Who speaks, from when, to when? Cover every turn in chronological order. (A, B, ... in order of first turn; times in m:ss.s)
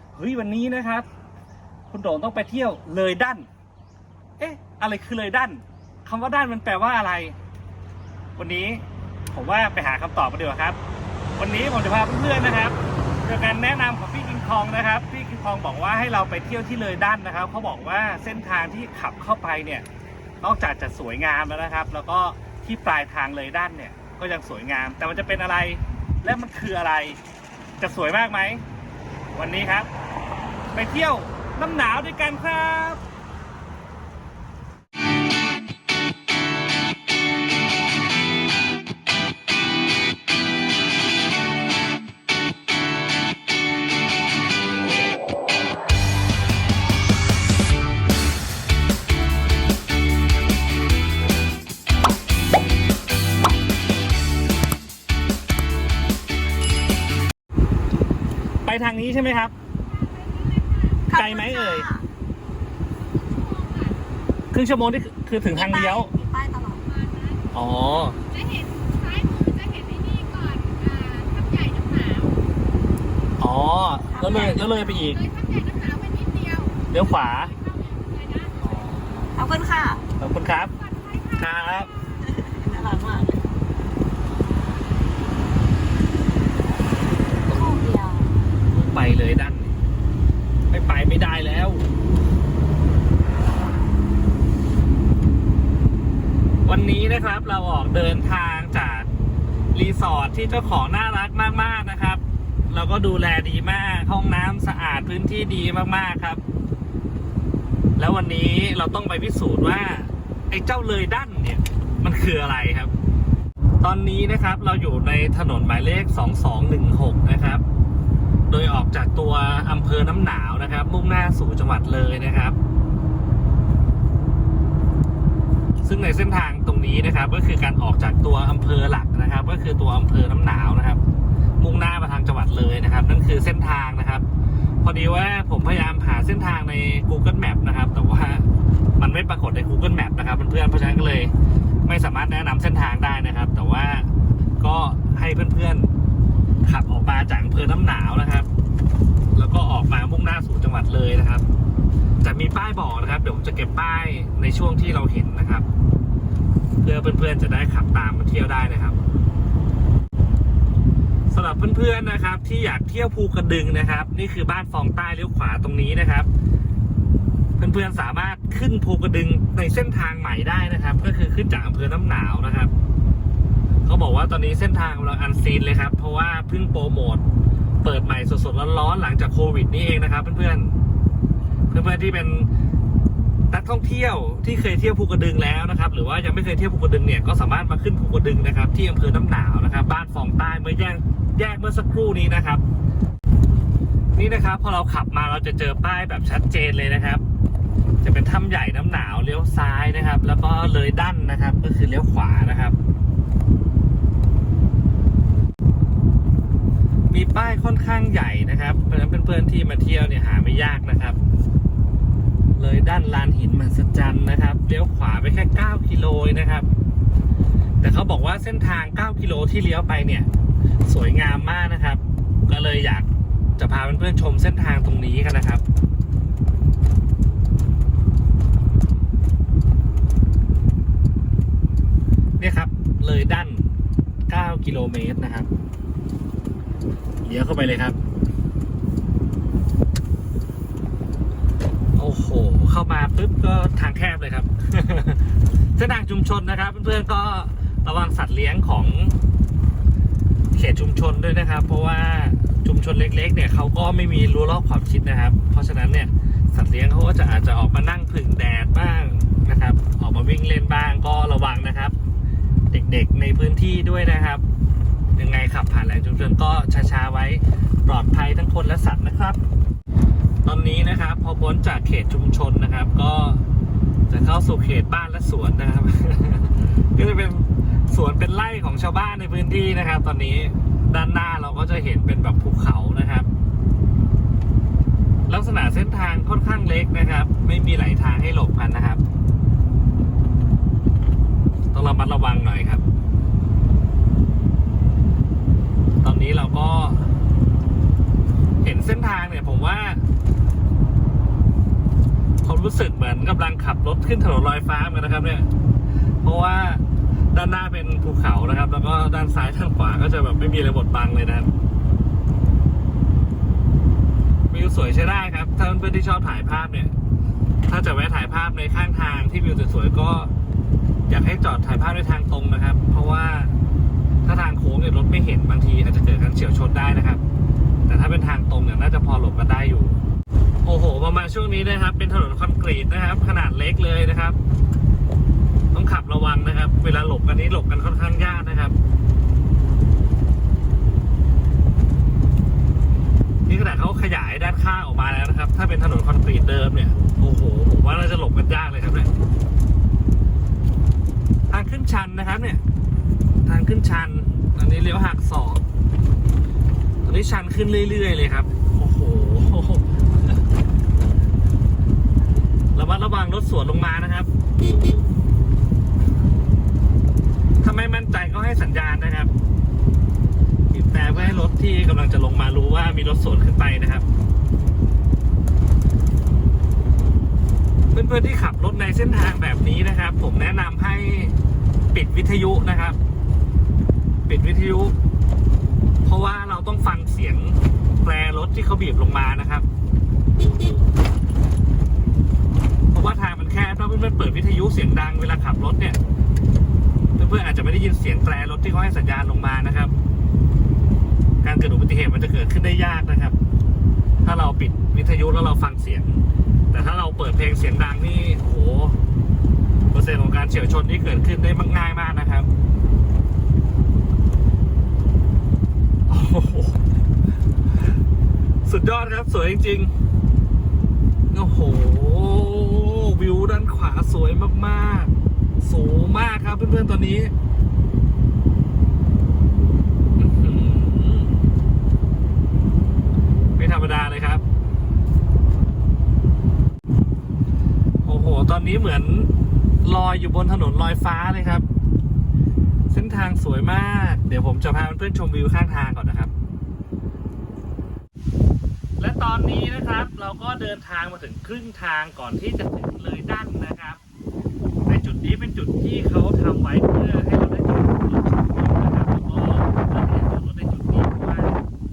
0:00.1-0:01.1 A
0:01.9-0:03.5 A
0:04.4-0:07.4 A
0:08.4-0:10.8 A
0:11.4-0:19.8 A
0:20.4-0:27.2 A
0:27.8-0:28.6 A
0:29.3-0:29.9 A
0:30.7-0:33.0 A
0:58.6-0:59.5 A
1:00.0-1:01.0 B
1:01.1-1:02.1 C
1:01.1-1:01.9 A
1:03.1-1:04.0 B
1:04.5-1:06.1 A
1:05.5-1:06.9 C
1:07.0-1:07.4 B
1:07.5-1:08.2 A
1:08.3-1:12.4 B
1:13.4-1:15.2 A
1:14.1-1:14.9 C
1:15.2-1:16.9 B
1:16.9-1:17.5 A
1:17.6-1:18.6 B
1:18.6-1:19.3 A
1:19.3-1:20.0 C
1:20.2-1:20.7 A
1:21.0-1:21.3 B
1:21.3-1:21.9 A
1:22.2-1:23.5 C
1:27.5-1:28.3 C
1:28.7-1:29.8 A
1:30.7-1:31.9 A
1:36.6-1:39.1 A
1:39.7-1:46.4 A
1:48.0-1:52.9 A
1:53.8-1:57.6 A
1:58.5-2:02.6 A
2:05.8-2:11.0 A
2:11.6-2:14.2 A
2:14.8-2:18.4 A
2:19.0-2:21.3 A
2:21.8-2:24.1 A
2:24.6-2:25.9 A
2:26.6-2:28.5 A
2:29.3-2:31.4 A
2:32.2-2:35.6 A
2:36.8-2:39.0 A
2:41.3-2:46.3 A
2:47.6-2:52.7 A
2:53.8-2:57.2 A
2:57.8-3:00.7 A
3:01.7-3:02.5 A
3:03.5-3:12.6 A
3:14.2-3:17.2 A
3:18.0-3:22.8 A
3:27.1-3:31.2 A
3:32.6-3:36.7 A
3:37.8-3:40.3 A
3:40.8-3:45.6 A
3:52.4-3:53.7 A
3:54.3-3:55.5 A
3:57.2-3:58.0 A
4:02.0-4:05.2 A
4:05.8-4:09.2 A
4:10.5-4:21.9 A
4:22.7-4:24.4 A
4:25.2-4:29.4 A
4:30.4-4:33.4 A
4:34.1-4:43.3 A
4:45.3-4:49.0 A
4:51.7-4:52.8 A
4:56.0-4:57.1 A
4:58.6-5:00.0 A
5:02.4-5:05.5 A
5:06.2-5:11.5 A
5:14.5-5:16.9 A
5:17.7-5:20.3 A
5:21.1-5:23.5 A
5:24.2-5:27.2 A
5:27.8-5:30.0 A
5:30.6-5:34.4 A
5:35.7-5:38.7 A
5:43.5-5:49.1 A
5:51.5-5:52.6 A
5:53.4-5:55.6 A
5:57.0-6:00.4 A
6:02.7-6:04.3 A
6:07.6-6:09.3 A
6:10.7-6:14.0 A
6:17.9-6:21.3 A
6:21.9-6:23.0 A
6:24.3-6:24.9 A
6:26.0-6:29.7 A
6:32.9-6:36.0 A
6:37.2-6:39.9 A
6:41.4-6:43.4 A
6:44.2-6:49.0 A
6:49.9-6:52.5 A
6:56.1-6:56.8 A
6:58.6-6:59.9 A
7:01.3-7:07.3 A
7:10.2-7:11.4 A
7:13.6-7:14.4 A
7:18.0-7:19.3 A
7:19.8-7:21.6 A
7:22.9-7:26.3 A
7:29.0-7:34.0 A
7:34.8-7:41.5 A